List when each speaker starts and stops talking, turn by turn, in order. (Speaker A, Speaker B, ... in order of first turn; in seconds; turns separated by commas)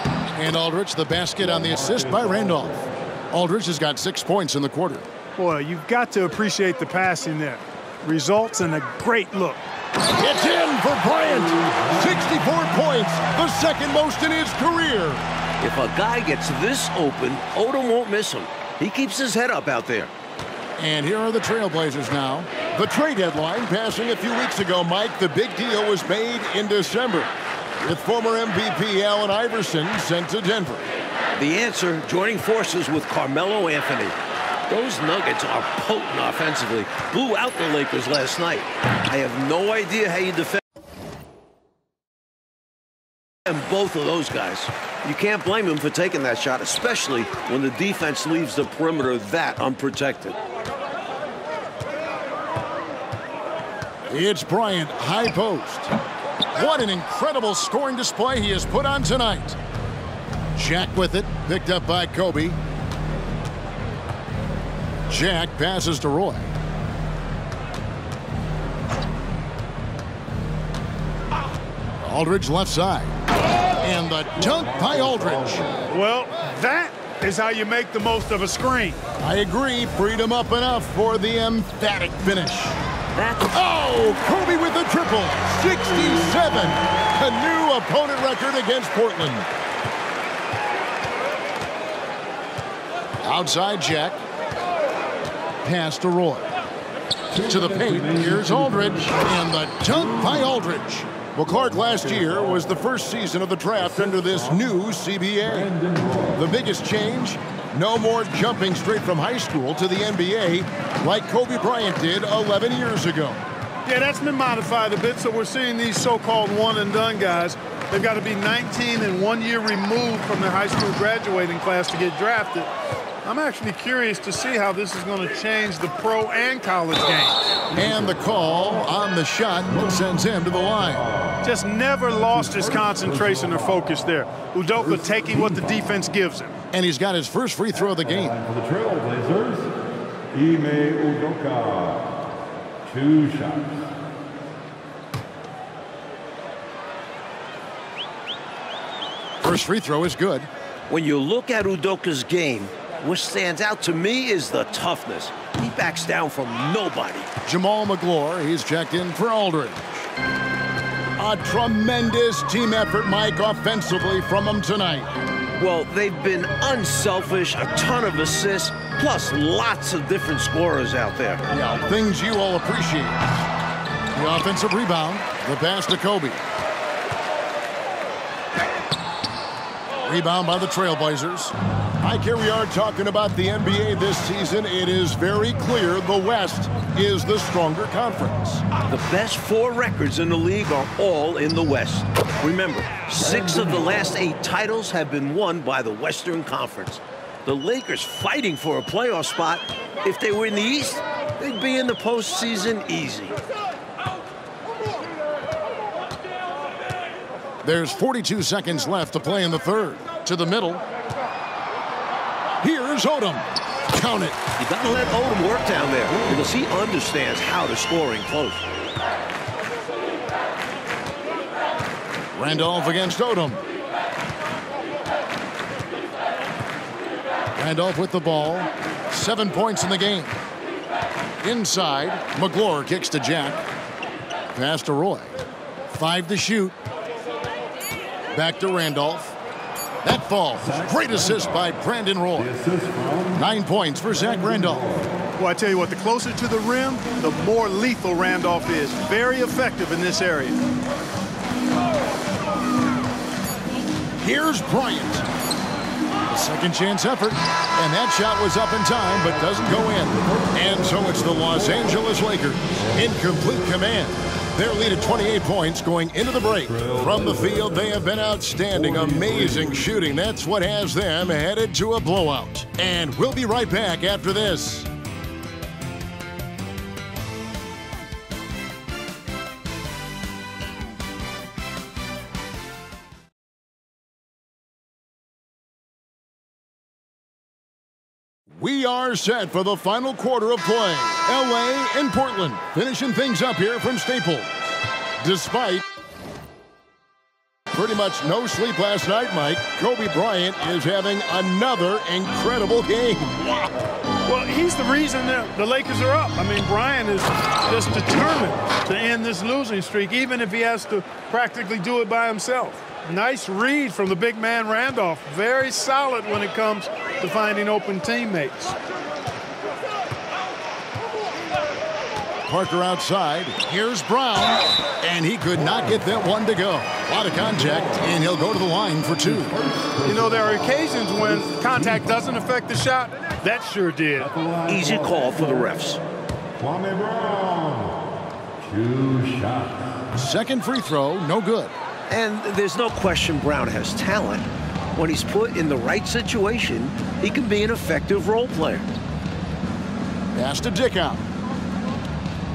Speaker A: 0.3-5.1, Speaker B: 1.5-2.7, Speaker C: 5.4-9.6, Speaker A: 10.2-15.2, Speaker D: 15.6-20.1, Speaker A: 20.8-30.9, Speaker D: 31.4-34.1, Speaker D: 34.7-40.6, Speaker D: 43.5-50.4, Speaker A: 54.1-55.9, Speaker A: 56.5-59.6, Speaker A: 60.6-62.6, Speaker A: 65.1-66.5, Speaker A: 72.0-73.2, Speaker A: 73.8-75.7, Speaker B: 74.7-75.6, Speaker C: 75.9-79.0, Speaker A: 79.2-82.8, Speaker D: 83.2-83.5, Speaker A: 83.5-89.5, Speaker A: 93.2-94.2, Speaker A: 95.6-96.5, Speaker B: 97.3-99.1, Speaker A: 97.5-105.7, Speaker B: 103.9-104.6, Speaker B: 105.4-106.4, Speaker A: 106.3-113.4, Speaker C: 113.9-122.7, Speaker C: 123.2-127.4, Speaker A: 127.7-131.1, Speaker B: 127.8-128.2, Speaker C: 131.4-136.6, Speaker B: 132.3-133.7, Speaker A: 136.7-138.4, Speaker B: 138.0-139.7, Speaker B: 140.3-142.2, Speaker B: 142.9-143.8, Speaker A: 149.4-150.5, Speaker D: 150.9-157.3, Speaker A: 157.4-160.1, Speaker A: 161.2-165.1, Speaker D: 165.6-171.4, Speaker A: 171.5-173.3, Speaker A: 174.1-176.4, Speaker A: 180.0-188.6, Speaker D: 188.9-203.4, Speaker A: 207.6-210.8, Speaker A: 212.6-214.4, Speaker D: 214.6-218.6, Speaker A: 222.3-223.6, Speaker A: 227.6-230.3, Speaker A: 231.4-233.6, Speaker A: 234.5-235.3, Speaker A: 235.9-236.8, Speaker A: 238.3-239.3, Speaker A: 240.0-242.5, Speaker B: 240.6-241.7, Speaker B: 242.4-243.5, Speaker A: 243.3-244.9, Speaker B: 244.5-245.1, Speaker C: 245.4-250.6, Speaker A: 254.2-255.2, Speaker A: 256.3-274.9, Speaker B: 260.2-261.4, Speaker B: 266.6-268.0, Speaker B: 268.7-269.9, Speaker A: 288.5-294.6, Speaker A: 295.2-295.9, Speaker A: 297.7-303.7, Speaker C: 304.3-318.8, Speaker A: 322.5-329.5, Speaker B: 327.6-328.0, Speaker B: 329.3-332.1, Speaker C: 330.0-334.3, Speaker B: 334.2-335.7, Speaker D: 334.7-336.0, Speaker B: 336.6-340.0, Speaker A: 340.1-341.7, Speaker D: 342.1-348.9, Speaker A: 350.3-351.2